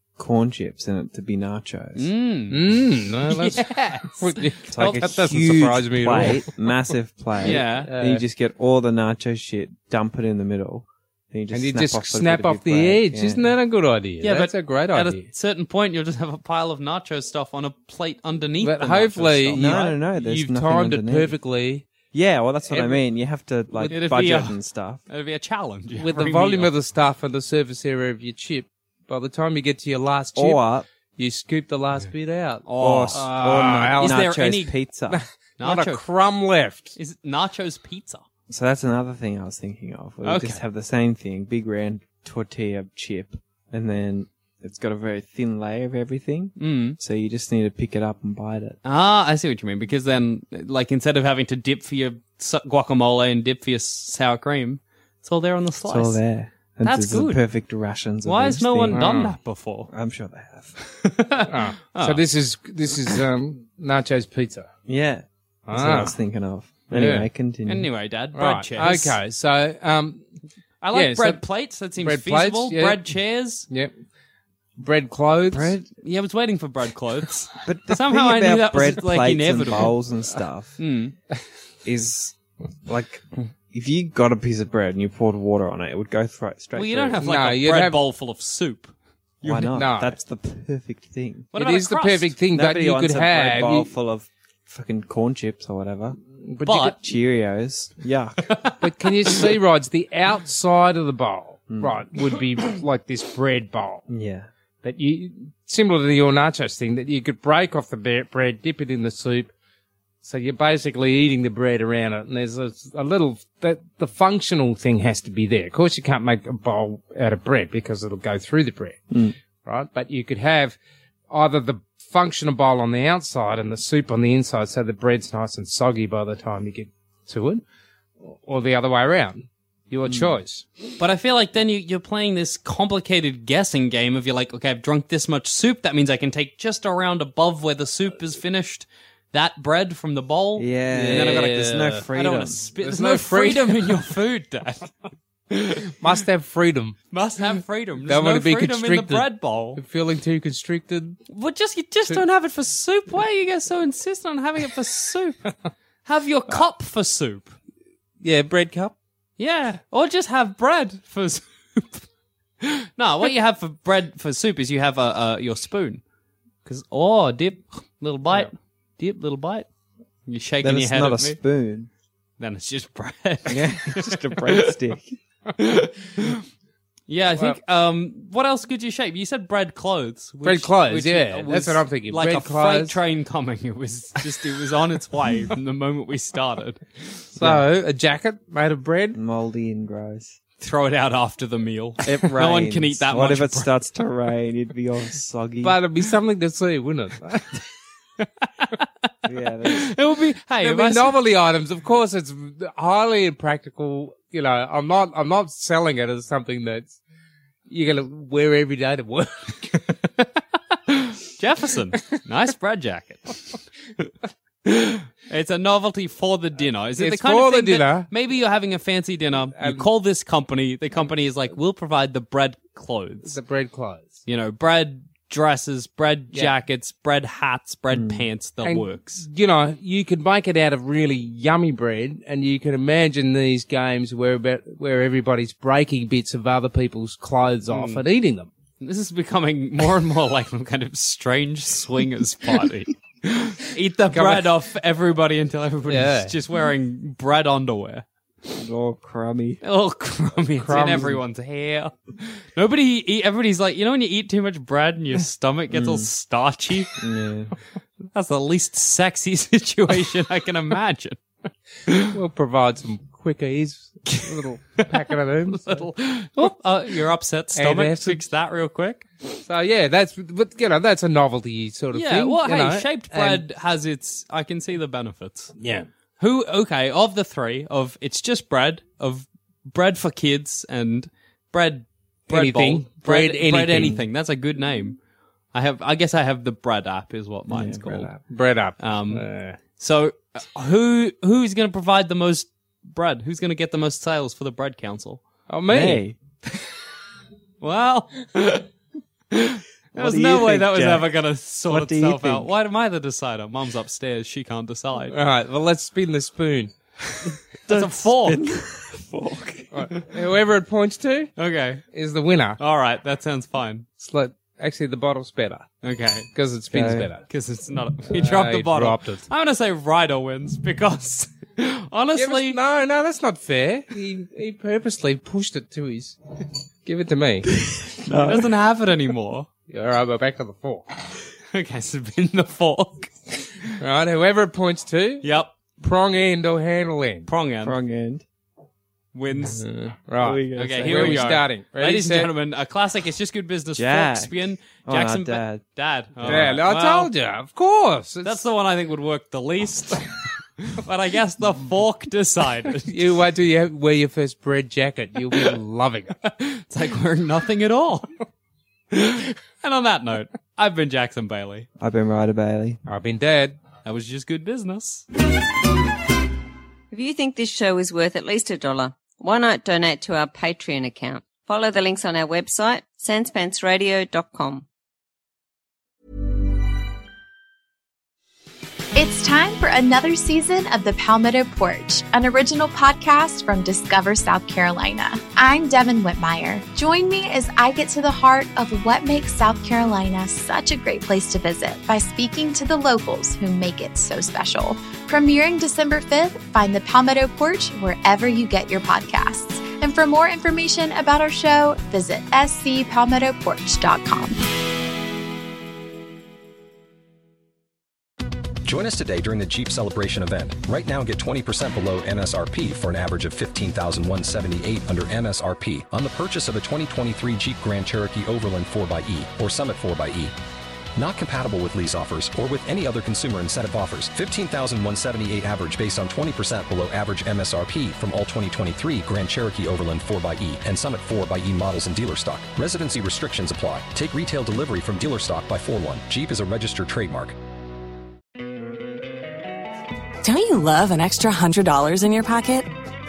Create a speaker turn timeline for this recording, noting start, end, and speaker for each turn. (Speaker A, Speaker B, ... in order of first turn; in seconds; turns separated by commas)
Speaker A: 0.2-2.1, Speaker B: 1.9-5.1, Speaker C: 2.5-6.5, Speaker A: 4.7-13.5, Speaker C: 7.4-8.2, Speaker B: 7.4-7.9, Speaker C: 11.5-15.2, Speaker B: 14.2-19.9, Speaker C: 18.6-21.9, Speaker A: 19.5-21.3, Speaker A: 22.1-25.0, Speaker C: 22.7-23.0, Speaker C: 23.7-24.1, Speaker B: 23.9-24.6, Speaker B: 25.1-26.7, Speaker C: 26.0-30.6, Speaker A: 30.3-30.9, Speaker C: 31.2-34.3, Speaker B: 32.6-34.7, Speaker A: 32.8-35.2, Speaker C: 35.1-37.0, Speaker B: 35.6-36.0, Speaker B: 37.0-38.2, Speaker A: 38.5-48.8, Speaker B: 40.2-40.6, Speaker B: 46.6-47.0, Speaker B: 48.8-56.2, Speaker A: 55.9-59.1, Speaker B: 56.8-57.4, Speaker B: 58.2-59.9, Speaker C: 58.9-59.3, Speaker A: 59.9-60.7, Speaker B: 61.0-62.2, Speaker C: 61.5-64.7, Speaker A: 64.9-67.9, Speaker C: 65.7-66.1, Speaker C: 66.9-67.3, Speaker B: 67.7-69.2, Speaker C: 68.3-70.2, Speaker B: 70.8-73.7, Speaker C: 70.9-71.4, Speaker C: 72.0-73.0, Speaker C: 74.8-75.8, Speaker A: 75.5-75.8, Speaker B: 75.6-80.0, Speaker A: 77.6-80.8, Speaker B: 80.8-81.1, Speaker A: 81.8-87.2, Speaker B: 86.7-89.7, Speaker C: 87.2-88.0, Speaker A: 89.4-91.5, Speaker C: 89.7-90.1, Speaker B: 91.5-92.3, Speaker C: 91.5-93.9, Speaker A: 92.5-96.2, Speaker C: 96.5-97.0, Speaker B: 96.6-97.0, Speaker A: 97.0-98.5, Speaker B: 98.5-99.5, Speaker C: 98.8-104.0, Speaker A: 101.7-102.0, Speaker A: 104.1-104.5, Speaker C: 104.8-109.5, Speaker C: 110.2-120.8, Speaker C: 121.3-127.6, Speaker C: 128.2-130.7, Speaker A: 130.1-130.4, Speaker B: 131.0-144.9, Speaker A: 140.6-142.6, Speaker C: 140.9-142.0, Speaker C: 142.8-144.1, Speaker B: 145.5-145.9, Speaker C: 146.0-146.9, Speaker B: 147.1-149.8, Speaker C: 148.1-151.2, Speaker B: 151.3-155.5, Speaker B: 156.0-157.6, Speaker C: 158.2-158.9, Speaker B: 159.4-162.0, Speaker B: 162.6-166.0, Speaker B: 166.6-169.7, Speaker B: 170.3-171.4, Speaker A: 170.6-171.9, Speaker B: 172.4-174.7, Speaker A: 173.5-175.2, Speaker B: 175.6-176.4, Speaker B: 177.1-186.9, Speaker C: 180.4-182.9, Speaker C: 187.3-189.2, Speaker A: 187.4-187.6, Speaker A: 189.1-190.4, Speaker B: 190.6-193.7, Speaker A: 192.0-195.8, Speaker C: 195.6-197.6, Speaker A: 199.2-199.9, Speaker B: 199.7-201.2, Speaker C: 200.6-206.9, Speaker C: 207.7-209.8, Speaker B: 210.9-214.1, Speaker B: 214.6-223.3, Speaker C: 217.0-218.1, Speaker C: 219.5-219.9, Speaker C: 223.2-224.1, Speaker B: 224.2-229.2, Speaker A: 227.9-228.3, Speaker C: 228.6-238.5, Speaker B: 237.7-238.0, Speaker B: 238.8-248.1, Speaker C: 244.1-244.5, Speaker C: 245.9-246.3, Speaker A: 248.5-249.6, Speaker B: 249.6-251.9, Speaker C: 250.5-251.2, Speaker A: 250.7-251.1, Speaker B: 252.5-256.9, Speaker A: 255.7-256.1, Speaker A: 257.0-257.5, Speaker B: 258.1-261.2, Speaker C: 262.1-265.9, Speaker B: 264.8-269.4, Speaker C: 267.5-268.2, Speaker C: 269.4-273.4, Speaker B: 271.9-275.5, Speaker C: 275.6-275.9, Speaker B: 276.2-285.0, Speaker C: 282.3-284.0, Speaker B: 285.5-288.1, Speaker A: 287.5-288.1, Speaker C: 288.1-289.6, Speaker B: 288.8-289.2, Speaker B: 289.8-295.2, Speaker C: 295.5-296.0, Speaker A: 295.7-296.2, Speaker B: 297.6-298.7, Speaker B: 299.3-305.1, Speaker A: 299.9-301.1, Speaker A: 301.6-302.5, Speaker C: 305.1-306.7, Speaker B: 307.1-308.4, Speaker A: 307.7-309.9, Speaker C: 309.7-311.3, Speaker B: 311.4-311.8, Speaker C: 311.9-312.6, Speaker B: 312.6-313.9, Speaker C: 314.0-315.7, Speaker B: 315.8-316.3, Speaker C: 316.3-317.2, Speaker A: 316.7-317.1, Speaker B: 317.3-322.6, Speaker C: 318.1-319.2, Speaker C: 322.1-326.2, Speaker C: 326.8-327.6, Speaker A: 327.9-328.5, Speaker B: 328.1-329.5, Speaker C: 329.7-330.8, Speaker B: 331.5-333.1, Speaker C: 333.8-335.3, Speaker B: 335.2-335.5, Speaker C: 335.8-337.3, Speaker B: 337.3-337.8, Speaker A: 337.6-338.2, Speaker B: 339.1-339.6, Speaker C: 339.4-342.3, Speaker A: 340.2-341.4, Speaker B: 340.5-347.1, Speaker A: 343.8-345.6, Speaker A: 346.2-346.6, Speaker C: 346.2-348.4, Speaker B: 348.2-350.1, Speaker B: 350.6-353.2, Speaker C: 352.9-356.2, Speaker B: 356.3-358.1, Speaker B: 358.9-361.7, Speaker A: 361.8-362.8, Speaker C: 362.9-363.6, Speaker B: 363.8-365.0, Speaker D: 366.9-374.6, Speaker E: 378.9-404.4, Speaker F: 408.6-420.3, Speaker F: 420.9-437.4, Speaker G: 440.2-442.7